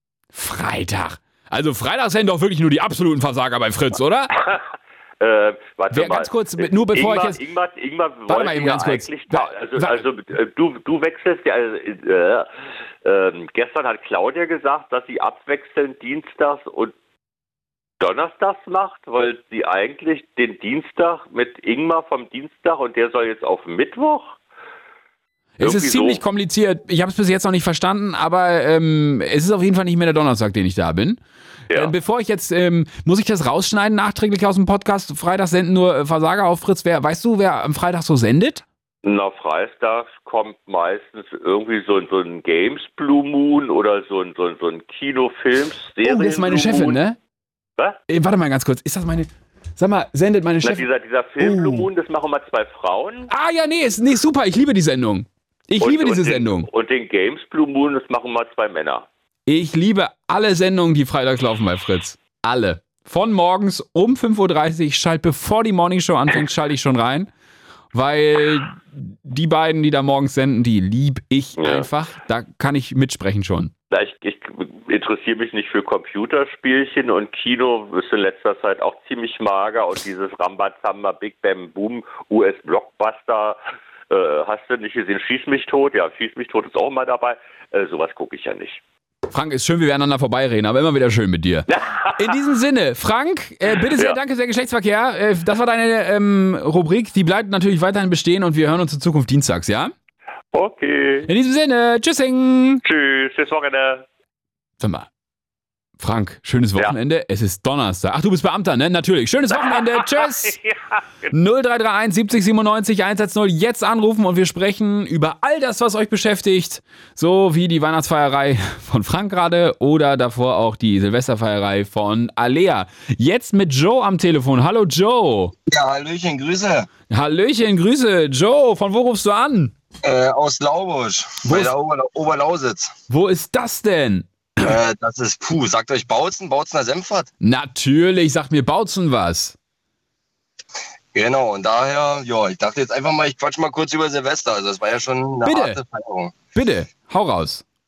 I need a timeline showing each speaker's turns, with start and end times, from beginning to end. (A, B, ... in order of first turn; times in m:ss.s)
0:00.3-0:04.3 A
0:05.2-0:12.5 B
0:05.9-0:07.4 A
0:08.3-0:10.0 A
0:13.0-0:16.9 B
0:18.0-0:24.3 B
0:25.6-0:31.2 A
0:25.6-0:26.2 B
0:31.8-0:38.6 A
0:39.0-0:47.0 B
0:46.0-0:47.2 A
0:48.1-0:50.8 A
0:50.6-0:53.3 B
0:51.4-0:51.9 A
0:53.3-0:56.7 A
0:55.8-0:59.0 B
0:59.5-1:07.3 A
1:07.9-1:13.7 A
1:11.6-1:11.9 B
1:13.9-1:23.6 B
1:24.1-1:28.8 B
1:29.3-1:39.9 A
1:31.7-1:32.4 B
1:40.5-1:41.3 B
1:41.3-1:42.8 A
1:42.8-1:44.0 B
1:44.8-1:45.1 A
1:46.0-1:50.6 A
1:49.5-1:51.0 B
1:51.3-2:05.5 A
2:05.7-2:06.9 C
2:07.1-2:09.7 A
2:10.0-2:12.9 C
2:11.4-2:11.7 A
2:13.1-2:14.8 A
2:14.6-2:17.3 C
2:17.4-2:19.5 A
2:21.1-2:26.4 C
2:25.4-2:25.8 A
2:26.5-2:27.6 A